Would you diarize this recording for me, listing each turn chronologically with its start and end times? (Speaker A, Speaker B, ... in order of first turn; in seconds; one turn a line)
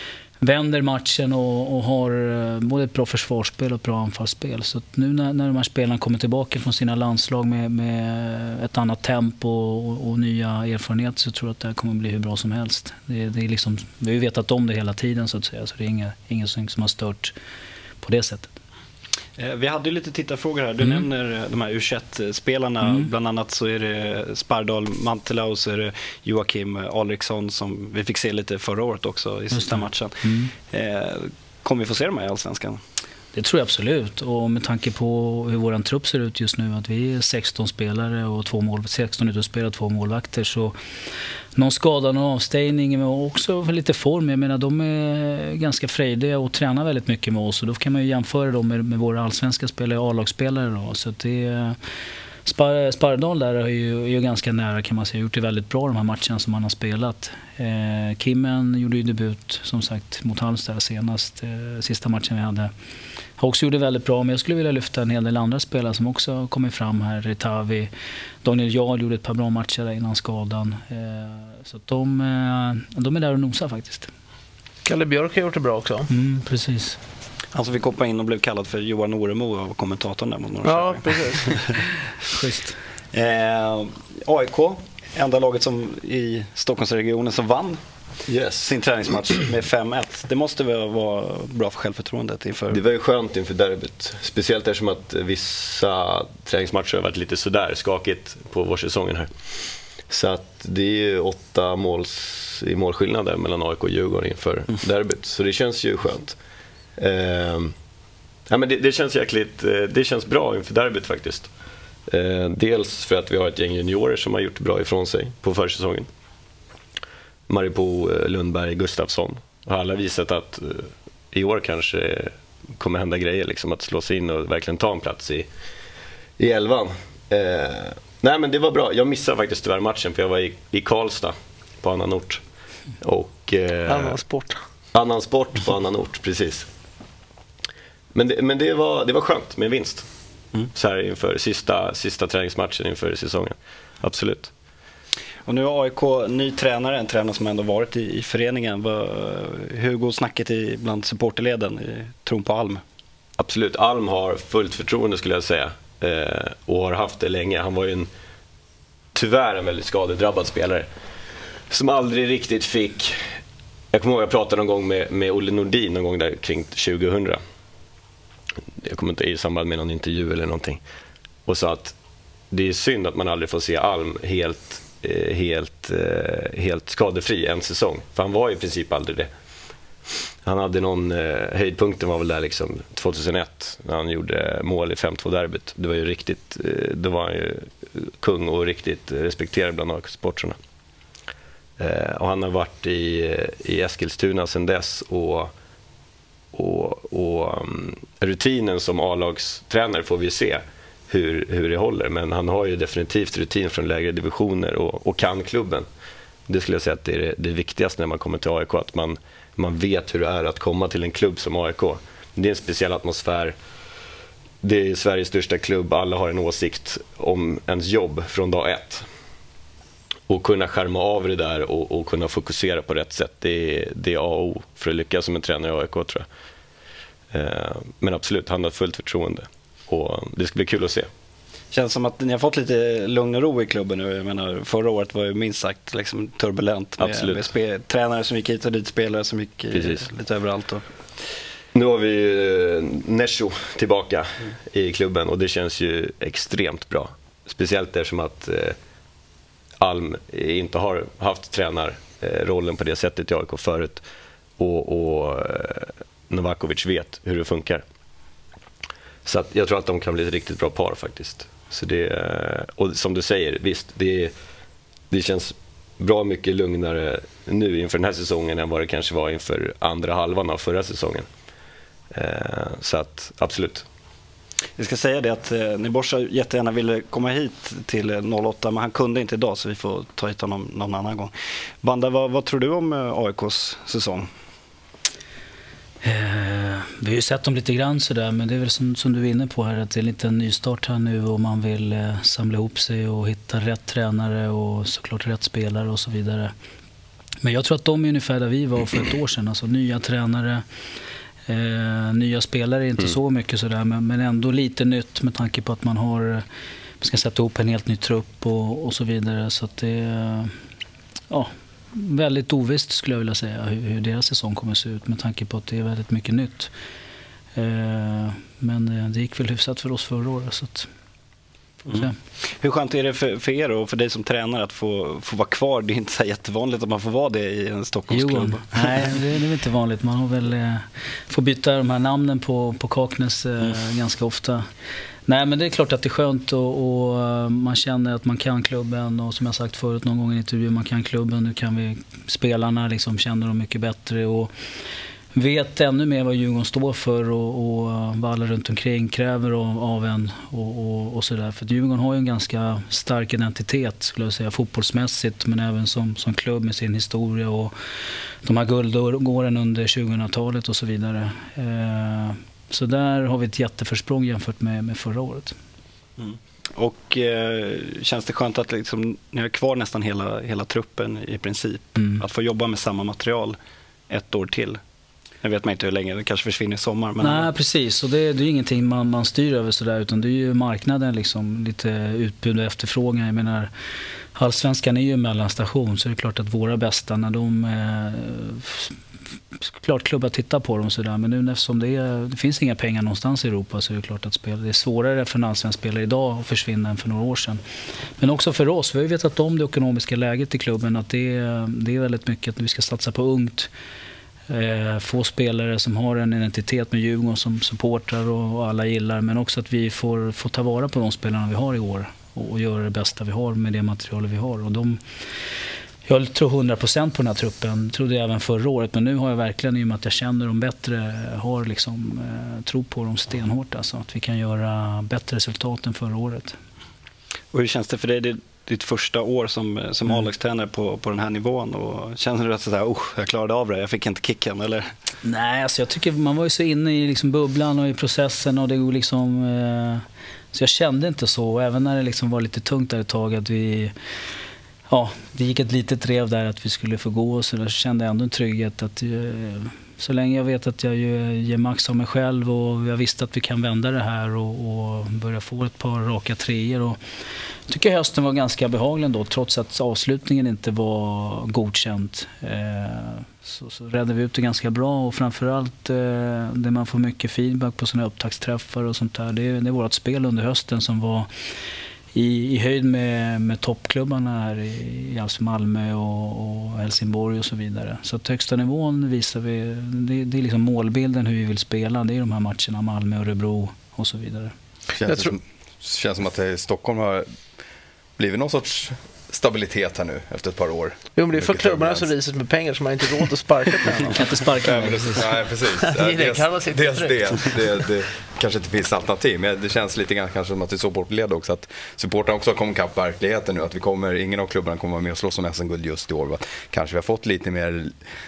Speaker A: 0.4-17.3
Speaker A: 18.0-18.5
Speaker B: 19.4-32.8
Speaker A: 22.8-23.1
Speaker A: 29.5-30.5
Speaker A: 33.3-40.7
Speaker A: 41.5-51.8
Speaker A: 52.4-62.7
Speaker A: 63.4-67.9
Speaker A: 68.4-74.1
Speaker C: 74.8-76.1
Speaker A: 76.1-77.0
Speaker B: 77.5-81.8
Speaker C: 80.6-81.6
Speaker A: 82.3-82.8
Speaker B: 83.1-87.8
Speaker D: 88.3-88.7
Speaker B: 88.6-92.8
Speaker D: 92.7-99.3
Speaker D: 100.1-106.4
Speaker D: 107.0-107.7
Speaker D: 108.5-111.5
Speaker D: 112.1-116.1
Speaker D: 117.5-125.5
Speaker D: 126.4-132.4
Speaker D: 133.0-134.2
Speaker C: 133.9-134.6
Speaker D: 134.9-136.7
Speaker D: 138.1-140.1
Speaker D: 140.7-144.5
Speaker B: 145.4-152.8
Speaker D: 153.4-158.1
Speaker D: 159.1-160.9
Speaker D: 161.7-163.2
Speaker D: 163.9-167.4
Speaker D: 168.8-170.8
Speaker D: 171.4-171.9
Speaker D: 172.5-179.3
Speaker D: 180.4-190.6
Speaker D: 191.8-195.5
Speaker D: 196.5-205.9
Speaker D: 206.5-213.6
Speaker D: 214.6-219.1
Speaker D: 220.3-226.2
Speaker D: 227.3-231.1
Speaker B: 231.7-240.8
Speaker D: 237.0-237.5
Speaker D: 239.7-240.1
Speaker D: 241.7-248.8
Speaker D: 249.8-254.0
Speaker D: 254.6-257.8
Speaker D: 259.2-264.3
Speaker D: 265.1-271.3
Speaker D: 272.1-273.9
Speaker B: 274.8-284.3
Speaker A: 286.0-296.5
Speaker A: 297.4-300.6
Speaker A: 301.5-306.4
Speaker A: 307.0-310.5
Speaker A: 311.3-316.7
Speaker A: 317.5-320.9
Speaker B: 321.9-329.0
Speaker A: 328.1-334.6
Speaker A: 335.2-344.5
Speaker A: 345.3-357.7
Speaker A: 358.4-365.5
Speaker B: 366.2-373.6
Speaker B: 374.1-374.8
Speaker B: 375.4-377.5
Speaker A: 377.2-383.7
Speaker A: 384.3-388.9
Speaker A: 389.6-397.6
Speaker A: 398.2-403.7
Speaker A: 404.5-415.0
Speaker A: 416.1-426.6
Speaker B: 427.5-434.8
Speaker A: 435.2-443.9
Speaker A: 444.9-457.0
Speaker A: 457.7-471.3
Speaker A: 472.1-484.5
Speaker E: 484.9-487.2
Speaker C: 485.1-485.3
Speaker E: 488.2-492.1
Speaker C: 491.1-494.2
Speaker A: 494.1-495.2
Speaker E: 494.6-507.9
Speaker C: 495.7-497.6